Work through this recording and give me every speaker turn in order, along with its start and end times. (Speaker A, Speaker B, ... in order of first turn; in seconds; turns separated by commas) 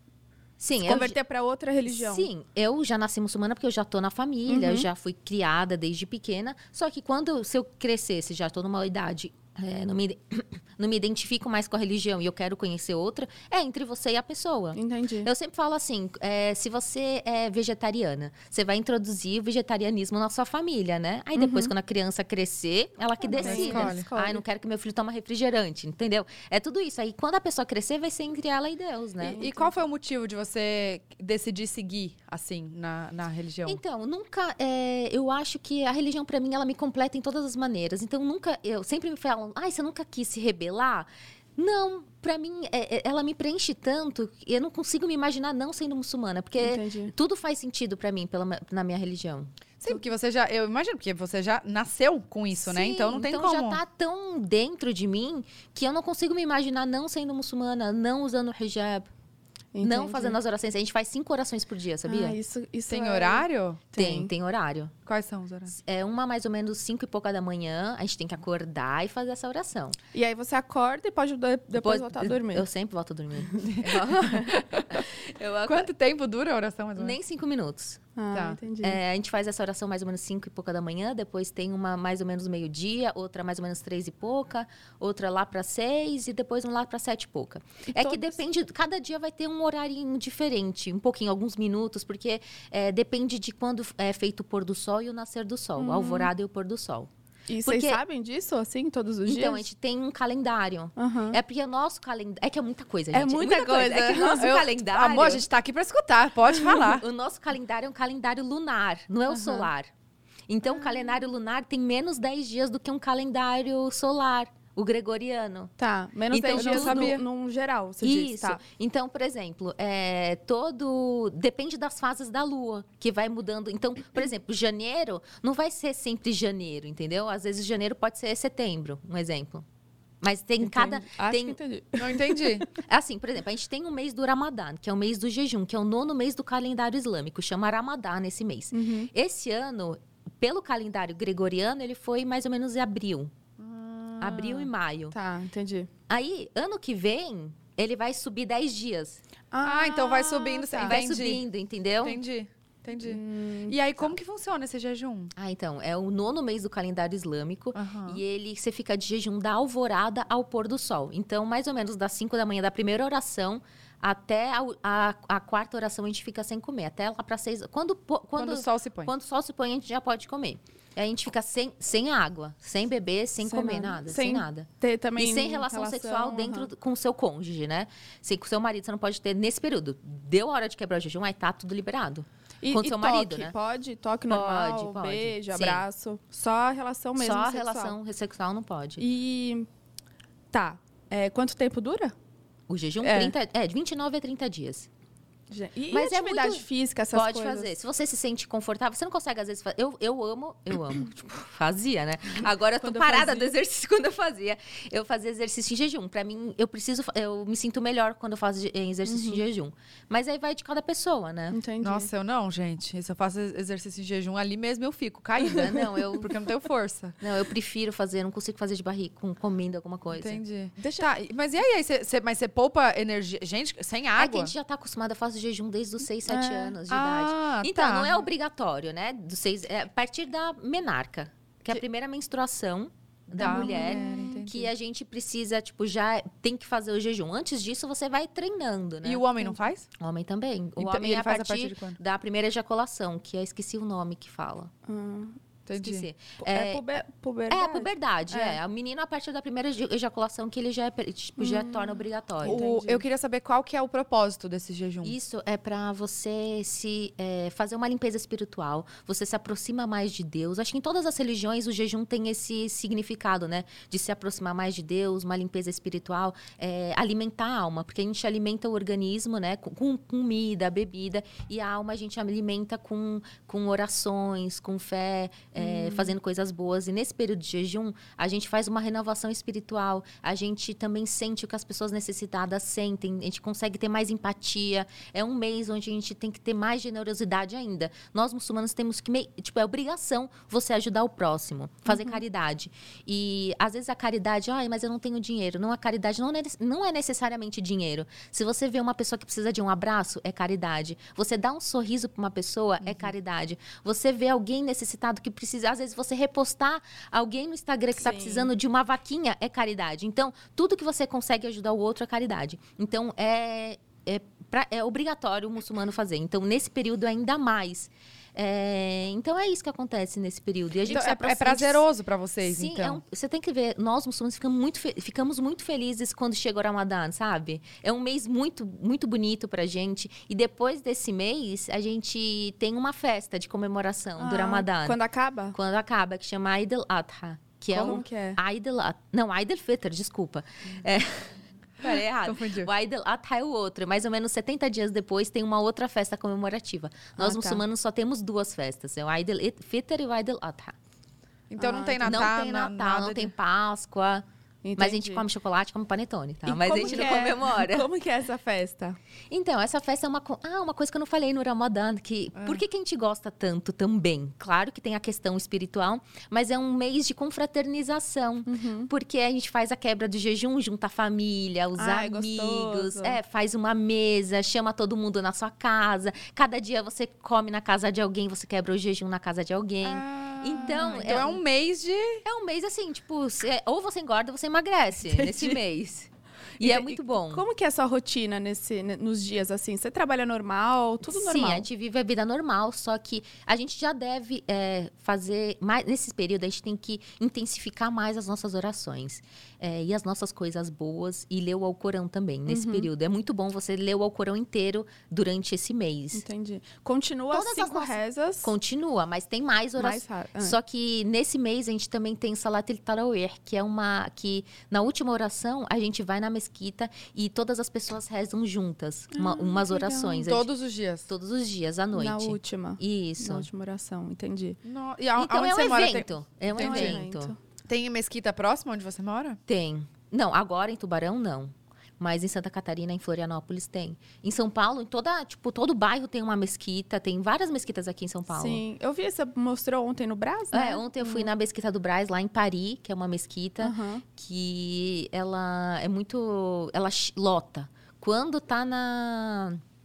Speaker A: 0.6-1.2, Speaker B: 0.8-2.3, Speaker A: 1.9-29.5, Speaker B: 4.5-4.9, Speaker B: 14.8-15.3, Speaker B: 21.4-21.7, Speaker B: 23.2-24.4, Speaker C: 23.4-24.1, Speaker B: 29.2-29.7, Speaker C: 29.2-33.8, Speaker A: 33.7-49.5, Speaker B: 46.6-47.1, Speaker C: 49.8-53.8, Speaker A: 52.5-59.1, Speaker B: 59.7-60.4, Speaker A: 59.8-62.4, Speaker B: 62.0-64.3, Speaker C: 62.9-63.8, Speaker A: 64.0-64.9, Speaker C: 65.1-65.7, Speaker A: 65.7-70.0, Speaker B: 70.1-72.7, Speaker A: 71.8-75.9, Speaker C: 73.7-75.1, Speaker C: 75.7-77.2, Speaker A: 77.0-78.0, Speaker B: 78.2-79.0, Speaker C: 78.3-78.6, Speaker A: 78.8-97.1, Speaker B: 87.9-88.4, Speaker B: 95.8-96.3, Speaker B: 97.5-99.7, Speaker A: 97.6-98.0, Speaker A: 99.2-105.5, Speaker B: 101.0-101.4, Speaker B: 103.1-104.5, Speaker C: 104.3-107.0, Speaker A: 106.7-109.9, Speaker A: 110.5-115.7, Speaker B: 110.7-111.0, Speaker B: 115.8-118.6, Speaker A: 116.3-117.1, Speaker C: 116.5-117.2, Speaker A: 118.0-129.7, Speaker A: 130.2-131.6, Speaker B: 130.6-132.7, Speaker C: 132.0-132.7, Speaker A: 132.8-143.3, Speaker B: 138.7-139.1, Speaker C: 143.6-144.7, Speaker A: 144.2-145.1, Speaker B: 145.1-145.9, Speaker A: 146.1-149.2, Speaker B: 149.5-151.0, Speaker C: 149.6-151.4, Speaker A: 150.8-152.2, Speaker C: 152.0-155.3, Speaker B: 153.0-153.8, Speaker A: 155.4-183.5, Speaker C: 157.8-158.2, Speaker C: 168.4-169.1, Speaker B: 173.4-176.7, Speaker B: 182.6-187.9, Speaker A: 184.3-185.8, Speaker A: 187.2-189.0, Speaker B: 189.0-189.7, Speaker B: 190.5-192.1, Speaker A: 192.7-194.9, Speaker B: 193.0-193.3, Speaker B: 195.5-197.7, Speaker A: 195.9-211.6, Speaker B: 202.4-203.5, Speaker B: 209.1-209.4, Speaker B: 211.5-212.1, Speaker C: 211.8-217.2, Speaker A: 215.4-216.3, Speaker A: 217.2-220.4, Speaker C: 220.2-224.5, Speaker B: 220.8-221.1, Speaker A: 224.2-239.3, Speaker B: 226.2-226.8, Speaker C: 226.9-228.3, Speaker C: 233.3-234.7, Speaker B: 233.4-234.4, Speaker C: 239.0-239.9, Speaker A: 240.0-244.7, Speaker C: 240.8-242.0, Speaker B: 244.9-245.4, Speaker C: 245.7-246.1, Speaker A: 245.8-247.0, Speaker B: 246.4-248.6, Speaker A: 247.5-252.6, Speaker B: 251.4-253.0, Speaker C: 252.4-255.2, Speaker A: 255.0-321.9, Speaker B: 275.6-276.1, Speaker B: 291.9-292.2, Speaker C: 302.8-303.1, Speaker B: 308.0-308.5, Speaker C: 320.9-323.0, Speaker A: 322.4-335.0, Speaker B: 334.2-335.6, Speaker A: 335.5-350.8, Speaker B: 337.7-338.4, Speaker C: 341.8-342.7, Speaker B: 347.2-347.6, Speaker C: 351.5-353.3, Speaker B: 351.6-352.3, Speaker A: 352.0-354.2, Speaker B: 354.6-355.2, Speaker A: 354.8-357.9, Speaker B: 356.5-359.0, Speaker A: 359.3-381.4, Speaker C: 362.4-362.6, Speaker B: 368.5-368.9, Speaker B: 371.8-373.2, Speaker C: 379.8-382.2, Speaker A: 382.2-387.4, Speaker C: 385.1-385.6, Speaker B: 386.6-391.7, Speaker A: 391.1-406.2, Speaker B: 402.5-402.9, Speaker B: 406.1-408.5, Speaker A: 407.3-420.5, Speaker B: 409.8-410.6, Speaker B: 419.1-420.3, Speaker C: 420.2-421.1, Speaker A: 421.1-423.5, Speaker B: 421.9-424.6, Speaker C: 424.6-427.0, Speaker A: 425.2-427.3, Speaker B: 426.5-427.4, Speaker C: 427.7-429.4, Speaker A: 429.5-438.6, Speaker B: 438.3-441.3, Speaker A: 440.5-449.6, Speaker B: 443.6-444.0